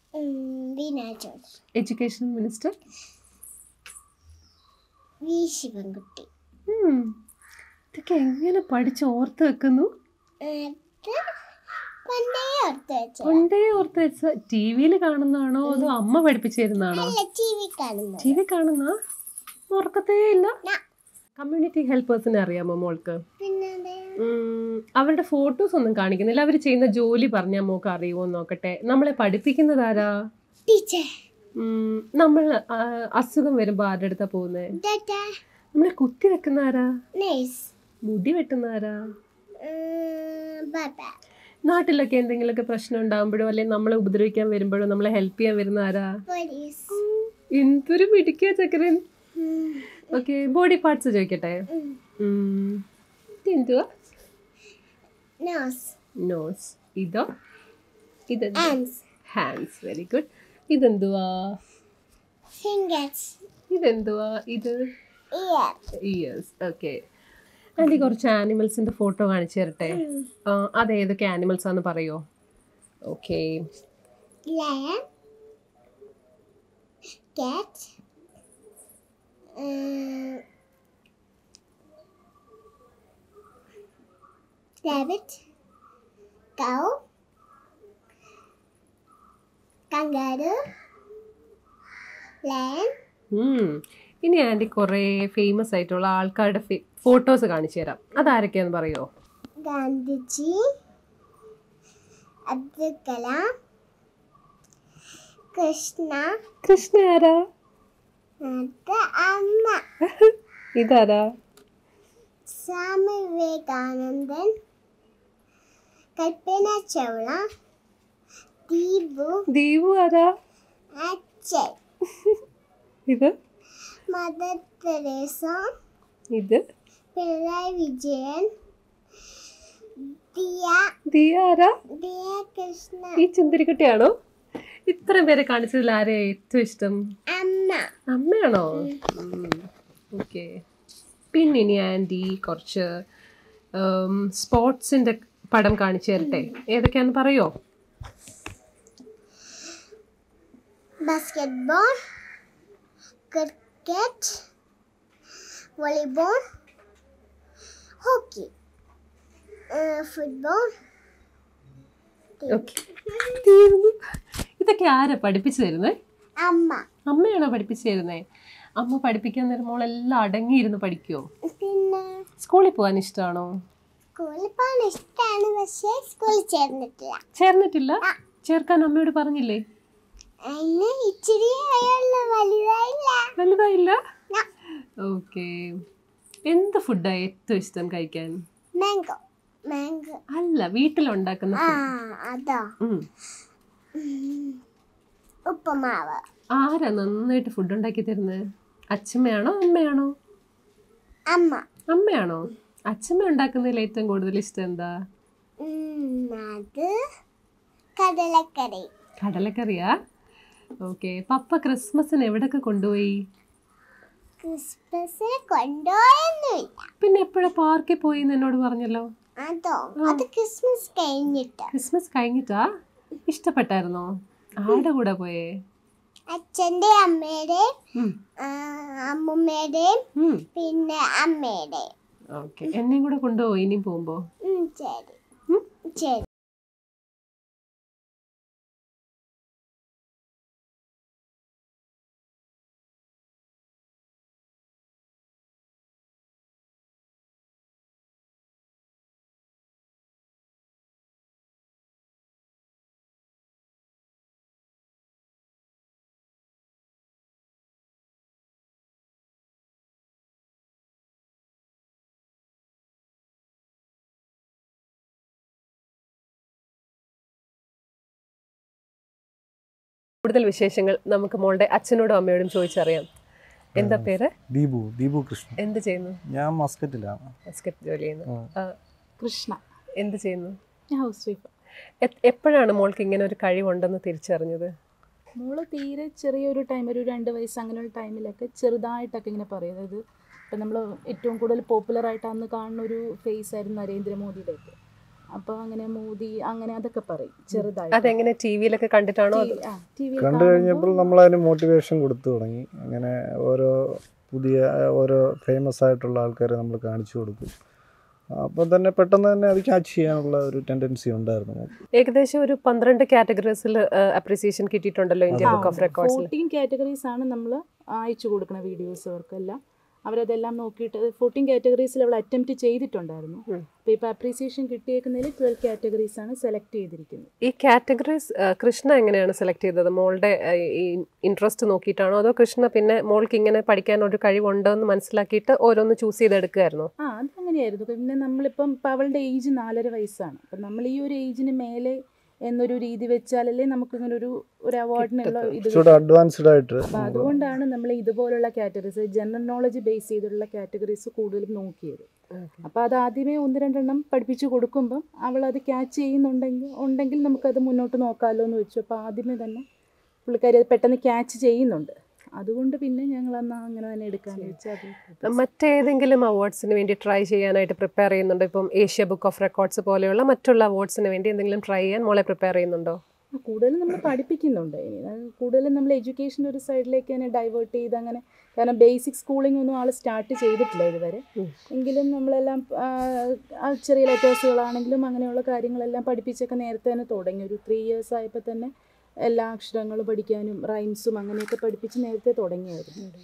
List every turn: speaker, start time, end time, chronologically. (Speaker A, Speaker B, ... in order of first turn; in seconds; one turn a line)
Speaker A: 0.2-1.4
Speaker B: 1.8-2.7
Speaker A: 5.2-6.3
Speaker B: 6.7-7.1
Speaker B: 7.9-9.9
Speaker A: 10.4-11.2
Speaker A: 12.1-13.4
Speaker B: 13.2-17.1
Speaker A: 16.9-18.4
Speaker B: 18.2-18.9
Speaker B: 19.7-20.5
Speaker B: 21.4-23.2
Speaker A: 23.4-24.1
Speaker B: 24.2-30.1
Speaker A: 30.7-31.1
Speaker B: 31.6-34.7
Speaker A: 34.8-35.2
Speaker B: 35.7-36.9
Speaker A: 37.2-37.7
Speaker B: 38.1-39.0
Speaker A: 39.6-41.1
Speaker B: 41.6-46.1
Speaker A: 46.3-47.0
Speaker B: 47.5-49.0
Speaker A: 49.4-50.0
Speaker B: 50.1-51.6
Speaker A: 51.7-52.0
Speaker B: 52.2-52.8
Speaker B: 53.4-53.9
Speaker A: 55.4-55.9
Speaker B: 56.2-57.2
Speaker B: 58.3-58.7
Speaker A: 58.6-59.0
Speaker B: 59.3-61.5
Speaker A: 62.6-63.4
Speaker B: 63.7-64.8
Speaker A: 65.3-65.8
Speaker B: 66.0-67.0
Speaker B: 67.8-72.2
Speaker A: 69.9-70.3
Speaker B: 73.1-73.5
Speaker A: 74.5-75.0
Speaker A: 77.3-77.9
Speaker A: 79.6-80.4
Speaker A: 84.8-85.4
Speaker A: 86.6-86.9
Speaker A: 89.9-90.5
Speaker A: 92.5-92.9
Speaker B: 93.3-99.1
Speaker A: 99.6-100.5
Speaker A: 102.5-103.4
Speaker A: 105.5-106.3
Speaker B: 106.6-107.4
Speaker A: 108.4-109.8
Speaker B: 110.2-111.2
Speaker A: 112.5-114.5
Speaker A: 116.2-117.4
Speaker A: 118.7-119.3
Speaker B: 119.5-120.3
Speaker A: 121.0-121.7
Speaker A: 124.1-125.6
Speaker B: 126.3-126.6
Speaker A: 127.2-128.5
Speaker A: 130.0-130.8
Speaker B: 131.1-131.7
Speaker A: 132.0-133.1
Speaker B: 133.2-134.1
Speaker B: 134.9-137.0
Speaker A: 137.3-137.9
Speaker B: 138.1-140.5
Speaker B: 141.3-142.9
Speaker B: 143.8-147.5
Speaker A: 146.2-146.5
Speaker A: 151.1-151.9
Speaker A: 153.3-154.3
Speaker A: 155.8-156.4
Speaker A: 158.0-158.5
Speaker A: 159.7-160.6
Speaker A: 162.4-163.3
Speaker B: 162.5-162.8
Speaker B: 163.4-164.0
Speaker B: 164.6-165.9
Speaker A: 166.4-166.8
Speaker B: 167.1-168.2
Speaker B: 168.8-171.2
Speaker A: 171.5-172.2
Speaker B: 172.4-173.5
Speaker A: 174.2-177.2
Speaker B: 177.4-179.6
Speaker A: 180.5-183.2
Speaker B: 183.4-184.0
Speaker B: 185.0-185.5
Speaker B: 186.5-188.4
Speaker A: 188.8-189.2
Speaker A: 189.7-190.2
Speaker B: 190.3-191.9
Speaker A: 191.6-192.6
Speaker A: 194.0-194.6
Speaker A: 195.5-196.2
Speaker B: 196.6-198.4
Speaker B: 198.9-200.1
Speaker A: 201.3-201.6
Speaker B: 201.9-204.9
Speaker A: 205.6-206.9
Speaker A: 208.0-208.9
Speaker B: 209.2-209.9
Speaker B: 210.8-213.2
Speaker A: 214.4-216.8
Speaker B: 217.0-219.1
Speaker A: 219.4-221.7
Speaker B: 221.7-222.6
Speaker B: 223.3-224.1
Speaker B: 224.6-225.5
Speaker A: 226.3-227.7
Speaker A: 228.4-230.0
Speaker B: 230.2-230.4
Speaker A: 230.5-231.9
Speaker B: 232.3-234.2
Speaker A: 234.4-235.2
Speaker A: 235.9-236.2
Speaker B: 270.2-273.1
Speaker C: 273.8-275.6
Speaker B: 273.8-274.3
Speaker B: 275.6-276.2
Speaker C: 276.3-277.2
Speaker B: 277.5-278.7
Speaker D: 279.2-279.6
Speaker B: 280.0-280.6
Speaker D: 280.9-281.5
Speaker B: 282.0-284.7
Speaker D: 285.4-294.7
Speaker D: 295.3-298.2
Speaker B: 297.9-299.6
Speaker D: 299.3-301.1
Speaker C: 300.2-307.5
Speaker C: 308.3-311.7
Speaker B: 312.0-316.3
Speaker C: 315.3-315.9
Speaker D: 315.4-327.3
Speaker B: 327.4-336.9
Speaker D: 337.0-346.0
Speaker C: 345.5-347.3
Speaker D: 346.9-352.1
Speaker B: 352.4-352.6
Speaker D: 352.6-359.6
Speaker D: 360.2-365.4
Speaker B: 365.2-373.0
Speaker D: 373.4-388.7
Speaker D: 389.2-393.0